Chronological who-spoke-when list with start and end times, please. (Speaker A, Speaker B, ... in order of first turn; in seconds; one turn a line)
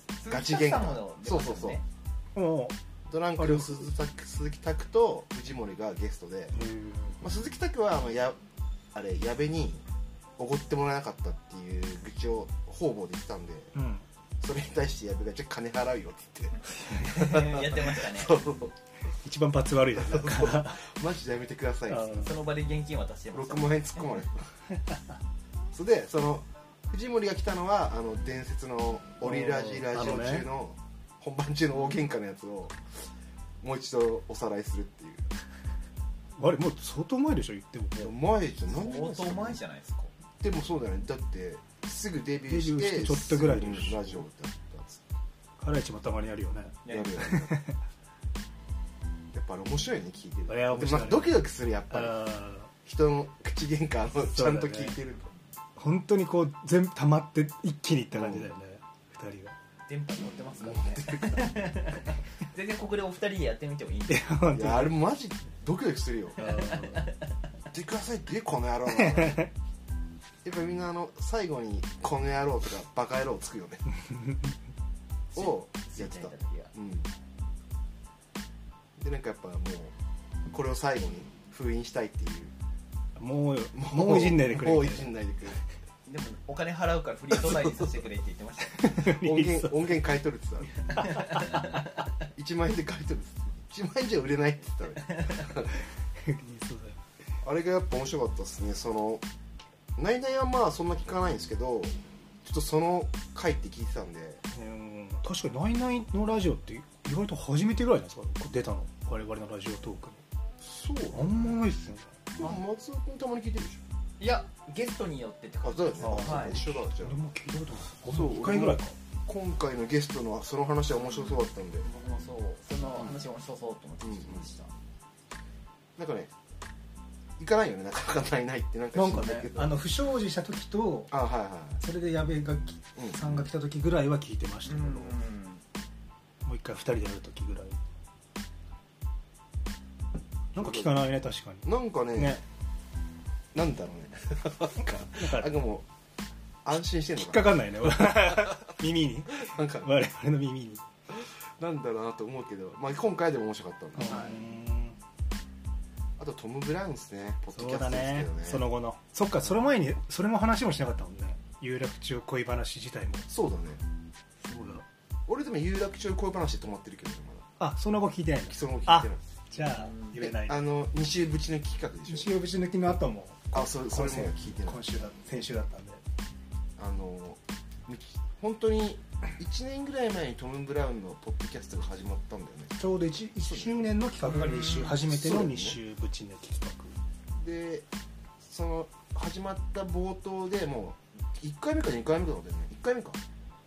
Speaker A: 0.2-1.8
Speaker B: 0.3-1.8
Speaker C: 2.3-2.7
Speaker B: 3.1-6.5
Speaker C: 3.4-3.9
Speaker C: 6.5-7.2
Speaker B: 7.2-8.4
Speaker B: 8.9-9.8
Speaker B: 10.4-13.7
Speaker C: 13.7-14.0
Speaker B: 14.4-18.7
Speaker A: 16.6-18.4
Speaker C: 19.2-20.8
Speaker B: 19.9-22.2
Speaker C: 21.9-22.4
Speaker A: 22.1-24.1
Speaker B: 23.3-24.5
Speaker B: 25.7-32.8
Speaker C: 29.2-30.5
Speaker B: 33.6-35.3
Speaker C: 36.4-38.1
Speaker B: 38.0-39.6
Speaker A: 38.7-40.1
Speaker B: 40.4-45.0
Speaker C: 42.5-44.2
Speaker C: 45.6-47.8
Speaker A: 46.8-47.2
Speaker B: 46.9-47.6
Speaker B: 49.3-52.2
Speaker C: 50.5-52.7
Speaker B: 52.8-55.3
Speaker C: 54.2-55.0
Speaker C: 55.8-59.5
Speaker B: 58.1-58.5
Speaker A: 59.9-64.3
Speaker B: 60.6-61.7
Speaker C: 64.1-65.0
Speaker B: 64.5-66.4
Speaker C: 66.4-67.1
Speaker A: 66.4-67.3
Speaker B: 67.7-69.5
Speaker C: 68.9-69.5
Speaker B: 70.4-73.8
Speaker C: 74.1-74.5
Speaker A: 75.3-76.7
Speaker B: 75.3-77.1
Speaker B: 79.0-79.9
Speaker B: 80.5-82.5
Speaker C: 83.2-85.1
Speaker B: 83.7-85.6
Speaker A: 86.0-89.0
Speaker C: 88.8-89.9
Speaker B: 89.0-91.1
Speaker A: 90.9-92.0
Speaker C: 91.0-91.7
Speaker B: 92.3-95.7
Speaker A: 95.0-95.5
Speaker C: 96.2-97.0
Speaker B: 97.4-99.2
Speaker B: 100.0-104.4
Speaker C: 104.5-110.2
Speaker B: 110.6-111.5
Speaker C: 111.1-112.1
Speaker B: 112.3-113.8
Speaker A: 114.2-116.6
Speaker B: 115.6-117.2
Speaker C: 116.0-118.9
Speaker B: 118.1-121.8
Speaker A: 121.0-124.7
Speaker B: 124.0-124.4
Speaker B: 126.0-126.3
Speaker B: 127.4-129.8
Speaker C: 128.9-131.1
Speaker B: 131.1-131.8
Speaker C: 131.8-135.2
Speaker B: 133.0-133.5
Speaker A: 134.7-135.6
Speaker C: 136.4-137.8
Speaker C: 140.5-142.4
Speaker B: 140.5-141.1
Speaker B: 141.6-142.4
Speaker B: 143.5-145.9
Speaker C: 145.1-145.5
Speaker B: 146.6-148.6
Speaker C: 147.1-150.8
Speaker B: 149.4-149.9
Speaker B: 151.1-154.2
Speaker C: 153.9-155.0
Speaker A: 154.0-154.3
Speaker B: 156.2-158.6
Speaker C: 157.5-163.3
Speaker B: 163.3-163.8
Speaker C: 164.4-164.8
Speaker B: 165.3-167.5
Speaker C: 167.6-170.6
Speaker B: 168.5-169.3
Speaker A: 169.6-170.2
Speaker B: 170.2-172.3
Speaker C: 172.1-176.0
Speaker B: 173.5-174.8
Speaker B: 176.8-182.8
Speaker C: 182.8-186.9
Speaker B: 183.4-183.9
Speaker A: 184.3-184.9
Speaker B: 184.4-185.8
Speaker B: 187.3-187.8
Speaker B: 188.4-193.2